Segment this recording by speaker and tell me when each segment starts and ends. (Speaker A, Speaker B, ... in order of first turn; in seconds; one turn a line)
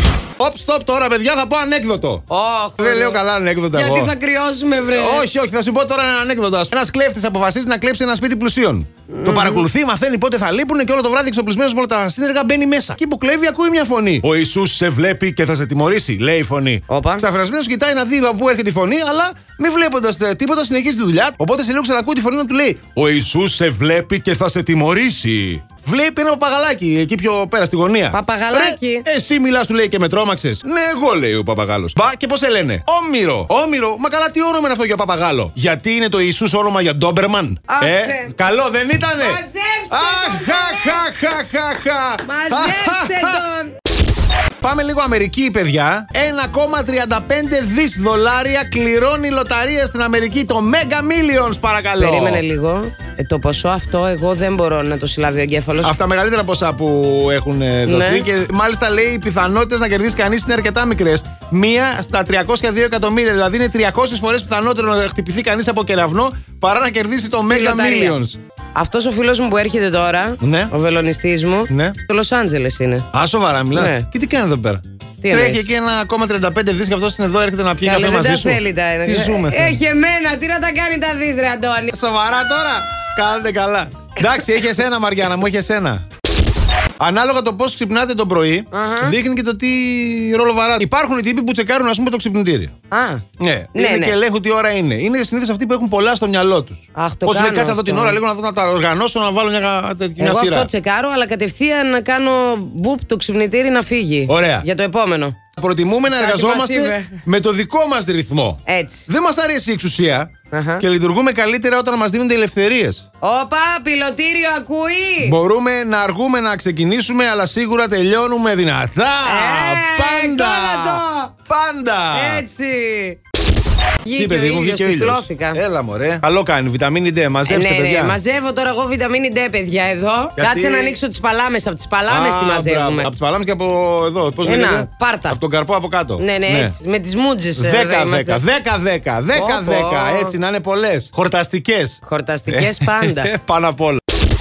Speaker A: 0.4-2.2
Speaker B: 2.3-3.2
Speaker A: 2.8-4.1
Speaker B: 3.7-5.3
Speaker A: 4.9-39.4
Speaker B: 9.1-9.7
Speaker B: 16.9-17.2
Speaker B: 28.1-29.1
Speaker B: 37.7-38.3
Speaker B: 39.2-41.0
Speaker A: 39.9-43.4
Speaker B: 42.2-43.8
Speaker A: 44.6-52.4
Speaker B: 52.0-56.0
Speaker A: 55.8-68.4
Speaker B: 57.9-58.3
Speaker B: 67.5-68.2
Speaker B: 68.8-73.1
Speaker A: 70.4-70.7
Speaker A: 71.7-72.0
Speaker A: 73.1-79.8
Speaker B: 73.8-74.1
Speaker B: 75.2-75.7
Speaker B: 77.8-81.9
Speaker A: 81.9-86.0
Speaker A: 87.0-92.7
Speaker B: 88.7-89.2
Speaker B: 92.9-93.2
Speaker A: 93.4-100.7
Speaker B: 93.8-94.2
Speaker B: 97.0-98.2
Speaker B: 100.2-105.4
Speaker A: 104.3-104.7
Speaker A: 105.6-113.0
Speaker B: 106.2-107.2
Speaker B: 108.7-109.0
Speaker B: 110.5-110.8
Speaker B: 113.2-115.4
Speaker A: 115.2-122.5
Speaker B: 119.2-121.3
Speaker B: 122.1-123.2
Speaker B: 124.0-125.6
Speaker A: 124.2-128.2
Speaker B: 127.5-133.1
Speaker A: 130.4-131.0
Speaker A: 132.1-136.8
Speaker B: 134.4-135.4
Speaker B: 136.2-138.4
Speaker A: 137.6-144.0
Speaker B: 139.3-140.3
Speaker B: 142.1-143.3